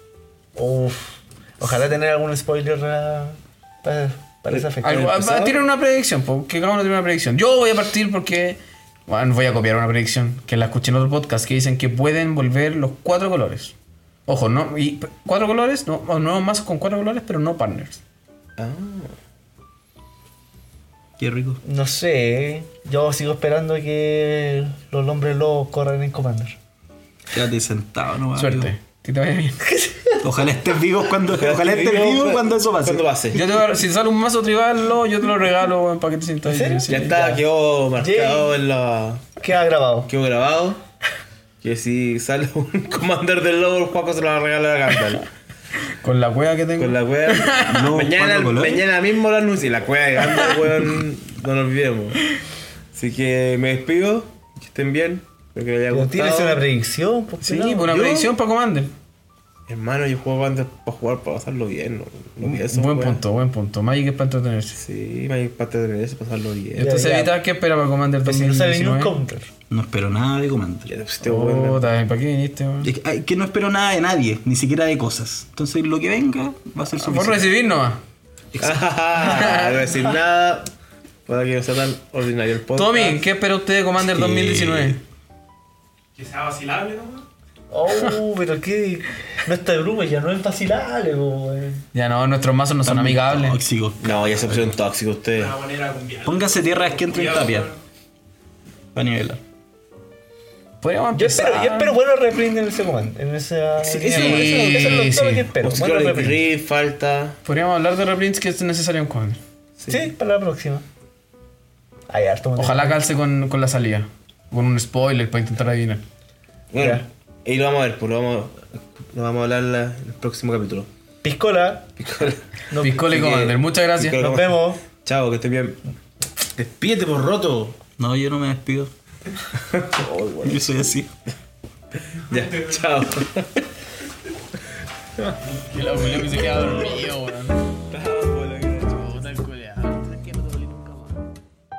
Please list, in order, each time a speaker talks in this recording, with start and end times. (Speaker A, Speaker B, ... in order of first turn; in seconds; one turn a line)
Speaker A: 0.6-5.6
Speaker B: 4.7-13.7
Speaker B: 14.3-18.0
Speaker C: 18.6-19.1
Speaker D: 21.2-21.6
Speaker A: 21.6-26.6
Speaker D: 27.3-28.7
Speaker B: 28.4-29.6
Speaker A: 29.7-30.2
Speaker D: 30.2-33.1
Speaker C: 31.3-33.4
Speaker B: 33.3-37.2
Speaker A: 36.5-37.4
Speaker C: 36.9-39.4
Speaker A: 38.0-38.5
Speaker A: 39.4-40.1
Speaker C: 40.1-40.8
Speaker C: 41.6-45.2
Speaker B: 45.9-47.9
Speaker C: 46.8-52.2
Speaker D: 47.6-48.9
Speaker C: 52.9-56.6
Speaker A: 55.9-58.0
Speaker C: 57.4-58.3
Speaker B: 57.4-58.9
Speaker C: 59.7-63.2
Speaker B: 62.4-64.8
Speaker C: 64.7-67.0
Speaker B: 66.8-69.2
Speaker A: 66.8-67.4
Speaker A: 68.2-69.5
Speaker D: 69.7-70.9
Speaker C: 70.8-71.9
Speaker B: 71.2-72.9
Speaker D: 72.8-77.4
Speaker B: 77.0-78.0
Speaker D: 78.5-78.8
Speaker C: 78.6-80.7
Speaker B: 79.2-79.8
Speaker C: 81.3-83.2
Speaker B: 82.8-85.0
Speaker D: 84.2-85.0
Speaker E: 86.2-87.2
Speaker A: 87.7-91.8
Speaker B: 91.9-93.6
Speaker D: 92.8-94.7
Speaker C: 94.0-95.6
Speaker E: 95.3-97.8
Speaker D: 96.2-97.7
Speaker D: 98.9-99.4
Speaker B: 100.8-102.0
Speaker A: 101.1-106.4
Speaker D: 103.8-104.7
Speaker C: 103.9-107.4
Speaker B: 104.1-105.5
Speaker B: 107.4-109.4
Speaker C: 109.8-110.1
Speaker A: 109.9-110.8
Speaker A: 112.1-113.0
Speaker B: 112.6-116.0
Speaker C: 116.7-120.9
Speaker A: 116.8-117.0
Speaker A: 121.2-121.9
Speaker C: 122.0-122.4
Speaker A: 122.7-123.5
Speaker B: 122.8-124.2
Speaker C: 123.1-125.8
Speaker A: 124.2-124.8
Speaker C: 126.5-127.8
Speaker D: 128.0-128.9
Speaker C: 129.6-130.7
Speaker D: 130.4-131.1
Speaker C: 132.1-133.6
Speaker B: 135.5-137.6
Speaker C: 137.9-139.2
Speaker B: 139.0-140.9